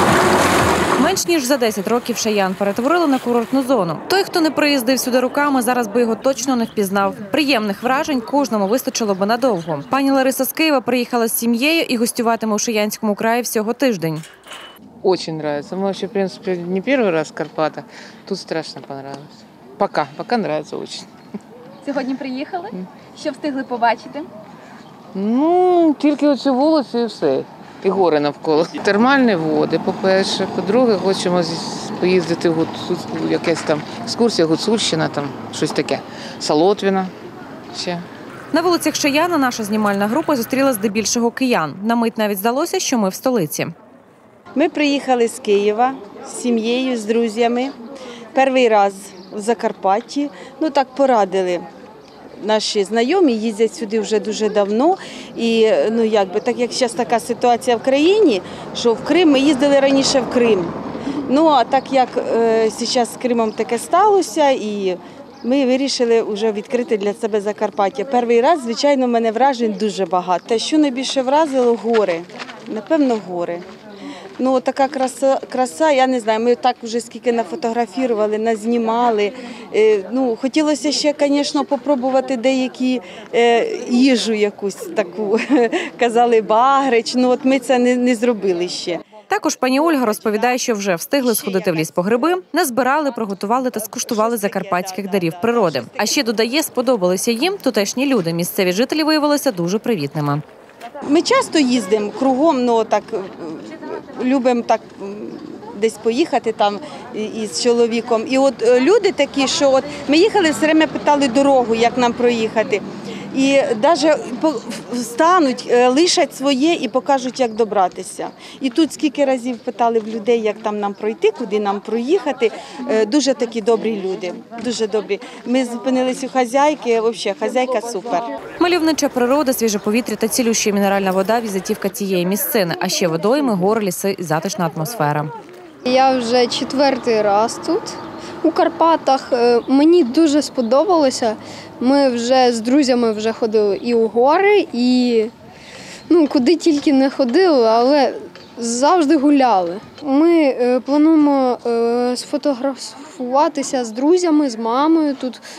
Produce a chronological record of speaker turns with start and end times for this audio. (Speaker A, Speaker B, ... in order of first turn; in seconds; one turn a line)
Speaker A: 1.0-14.2
Speaker B: 15.0-21.1
Speaker C: 21.9-24.3
Speaker B: 25.1-37.1
Speaker B: 37.7-38.0
Speaker A: 38.5-43.7
Speaker D: 44.5-47.7
Speaker D: 48.3-51.6
Speaker D: 52.4-60.8
Speaker D: 61.3-73.7
Speaker D: 74.4-89.1
Speaker A: 89.3-100.4
Speaker D: 91.2-91.8
Speaker D: 94.1-96.2
Speaker D: 101.1-128.3
Speaker A: 128.6-135.3
Speaker E: 135.8-145.3
Speaker E: 146.1-155.4